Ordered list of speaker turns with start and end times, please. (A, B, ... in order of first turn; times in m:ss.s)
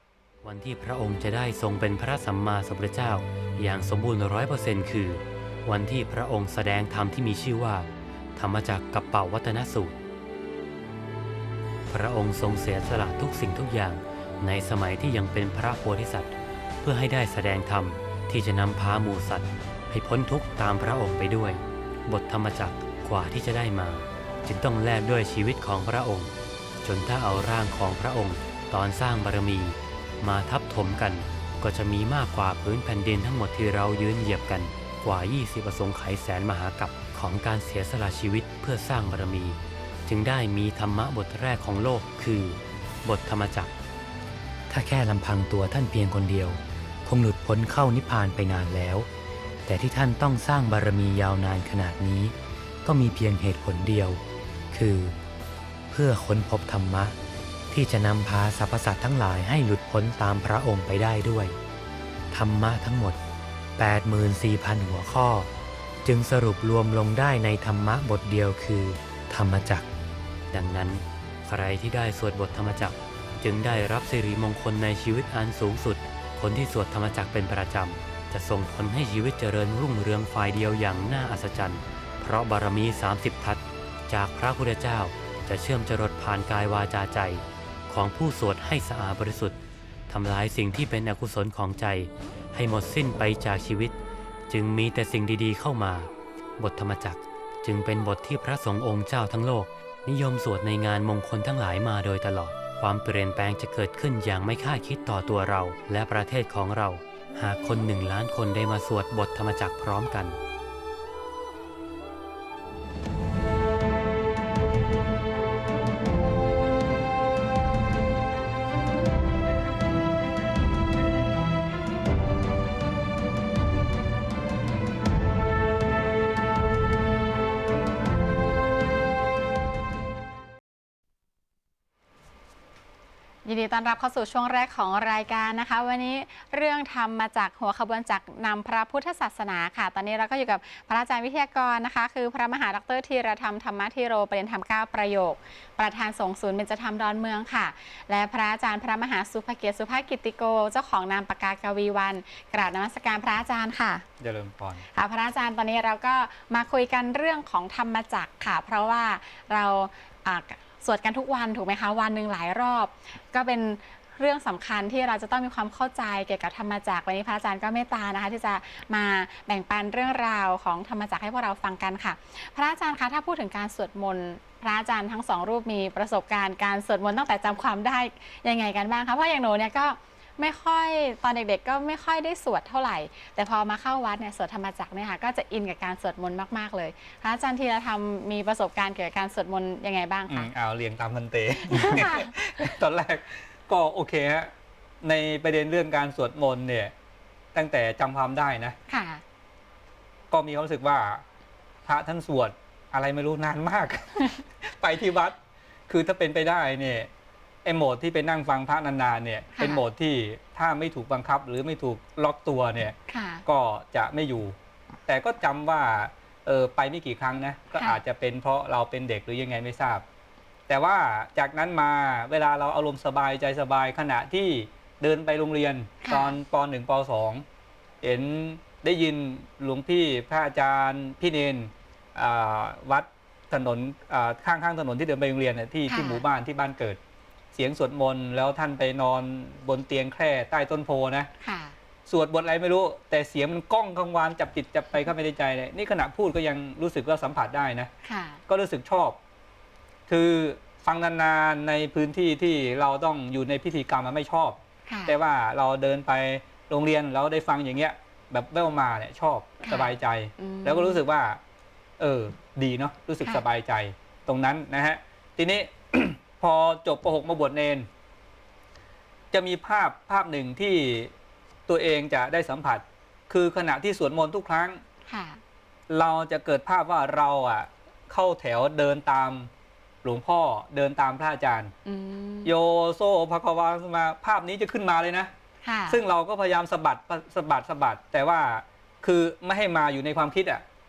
0:00.4-0:10.0 A
0:11.9-0:43.7 A
0:44.7-0:49.1 A
0:49.6-0:55.2 A
0:55.9-0:57.2 A
0:57.7-1:01.6 A
1:02.3-1:03.2 A
1:03.8-1:05.5 A
1:06.0-1:09.9 A
1:10.5-1:34.0 A
1:34.5-1:50.4 A
2:13.4-2:34.0 B
2:34.2-2:34.8 C
2:34.9-3:10.5 B
3:10.3-3:14.5 C
3:11.6-3:12.3 B
3:15.0-3:16.9 C
3:17.5-3:18.8 C
3:18.9-3:19.2 B
3:20.3-3:21.2 C
3:21.8-3:25.4 C
3:25.9-3:27.1 C
3:27.6-3:34.6 C
3:29.6-3:29.8 B
3:33.0-3:33.4 B
3:35.1-3:40.0 C
3:37.7-3:38.0 B
3:40.7-3:47.4 C
3:46.0-3:46.4 B
3:48.0-3:57.0 C
3:55.9-3:56.2 B
3:57.5-4:01.3 C
4:01.4-4:01.8 B
4:02.0-4:07.9 C
4:08.0-4:08.4 B
4:08.5-4:09.2 C
4:10.1-4:21.4 C
4:14.9-4:15.2 B
4:19.6-4:21.0 B
4:22.0-4:27.9 C
4:29.3-4:31.1 C
4:31.7-4:34.8 C
4:35.0-4:35.4 B
4:35.9-4:39.5 C
4:40.0-4:41.7 C
4:41.8-4:42.5 B
4:42.4-4:45.3 C
4:45.6-4:46.0 B
4:45.9-4:50.6 C